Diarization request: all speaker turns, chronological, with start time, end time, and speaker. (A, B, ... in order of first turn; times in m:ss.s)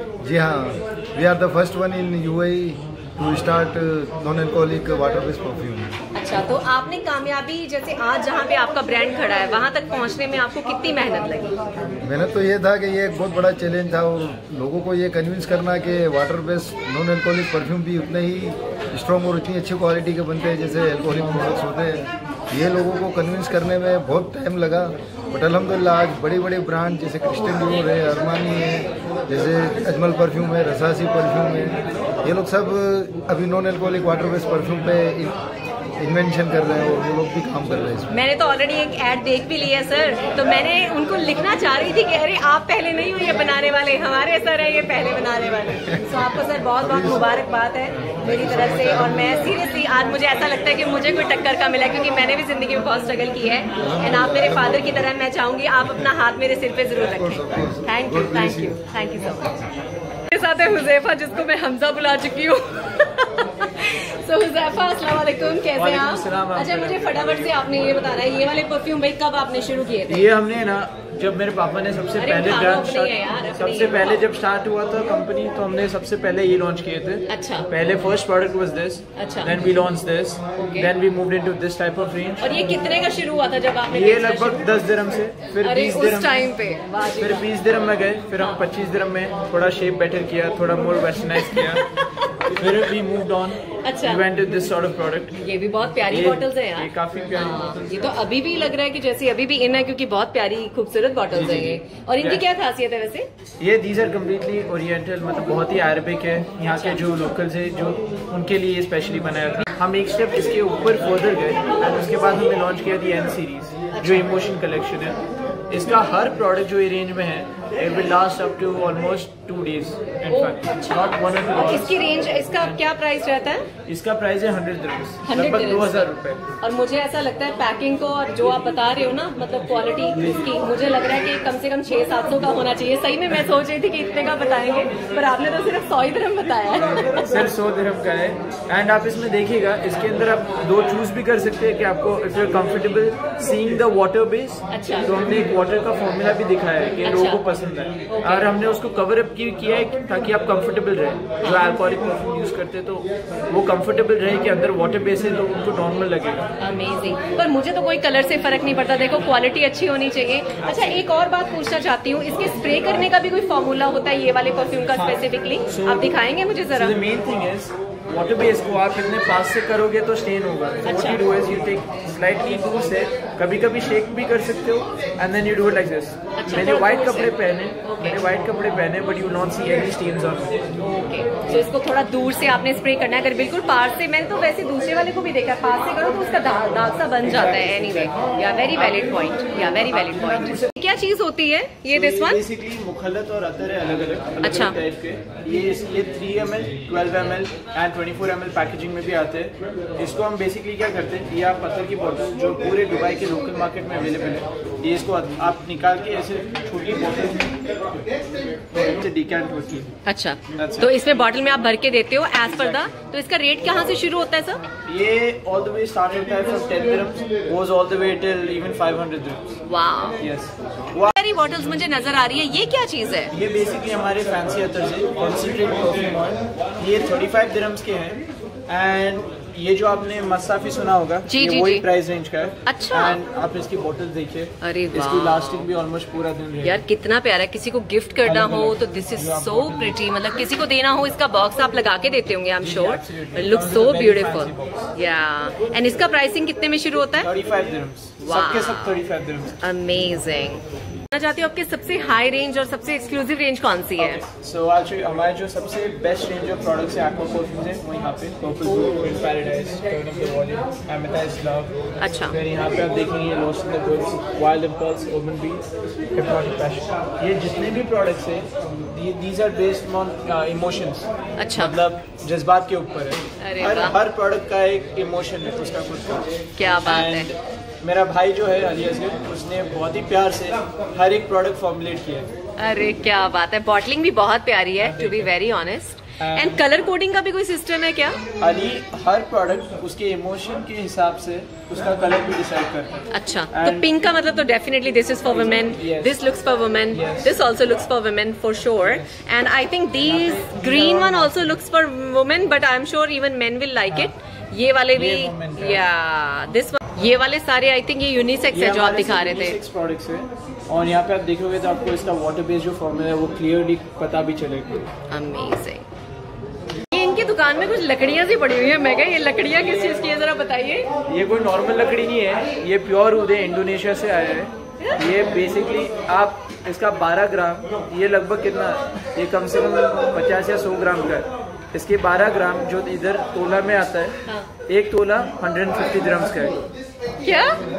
0:00.2-0:06.0 A
0:06.1-0:11.6 B
0:12.0-0:35.4 A
0:36.0-0:38.1 A
0:38.1-0:59.6 B
0:46.8-0:47.3 A
0:48.0-0:49.6 A
0:53.8-0:55.0 A
0:57.0-0:58.8 A
1:00.3-1:10.3 B
1:05.7-1:07.6 C
1:10.1-1:22.4 C
1:12.2-1:14.2 B
1:17.3-1:17.7 B
1:19.2-1:19.6 B
1:20.6-1:20.9 B
1:22.4-1:24.7 B
1:23.9-1:26.5 C
1:25.6-1:27.5 B
1:27.2-1:31.8 C
1:32.5-1:35.4 C
1:33.8-1:34.2 B
1:35.4-1:43.3 B
1:36.1-1:38.0 C
1:41.3-1:42.4 C
1:43.6-1:55.2 C
1:46.7-1:47.0 B
1:53.9-1:54.3 B
1:55.7-2:02.8 C
2:00.3-2:03.7 B
2:03.9-2:06.4 C
2:05.3-2:06.1 B
2:06.6-2:17.3 B
2:17.1-2:36.5 C
2:24.7-2:25.2 B
2:27.0-2:27.4 B
2:28.1-2:28.5 B
2:31.4-2:31.7 B
2:36.6-2:46.9 B
2:40.6-2:41.0 C
2:44.9-3:00.6 C
2:50.8-2:51.2 B
2:56.4-2:58.2 B
3:00.8-3:12.4 B
3:07.3-3:08.1 C
3:08.8-3:10.7 C
3:11.9-3:27.6 C
3:14.4-3:14.8 B
3:28.7-3:29.9 C
3:30.0-3:34.6 B
3:30.5-3:30.9 C
3:34.8-3:39.6 C
3:39.6-3:40.2 B
3:40.2-3:41.1 C
3:41.1-3:43.3 B
3:43.3-3:56.8 C
3:51.2-3:51.8 B
3:52.6-3:53.2 B
3:54.6-3:55.7 B
3:56.6-4:07.3 B
3:58.2-4:00.0 C
4:02.6-4:04.9 C
4:07.2-4:09.5 C
4:08.2-4:09.0 B
4:09.6-4:14.2 B
4:14.0-4:21.8 C
4:22.0-4:22.4 B
4:22.3-4:25.6 C
4:26.1-4:42.3 C
4:31.4-4:31.7 B
4:33.4-4:34.0 B
4:36.6-4:37.3 B
4:42.6-4:48.2 B
4:44.8-4:45.3 C
4:46.2-4:46.6 C
4:48.4-4:53.9 C
4:53.1-5:09.6 B
4:55.3-4:56.2 C
4:56.9-4:57.4 C
5:00.0-5:01.5 C
5:04.9-5:05.8 C
5:08.5-5:14.8 C
5:15.1-5:15.8 B
5:16.9-5:20.9 B
5:21.1-5:34.2 C
5:34.7-5:36.6 C
5:37.2-5:37.6 B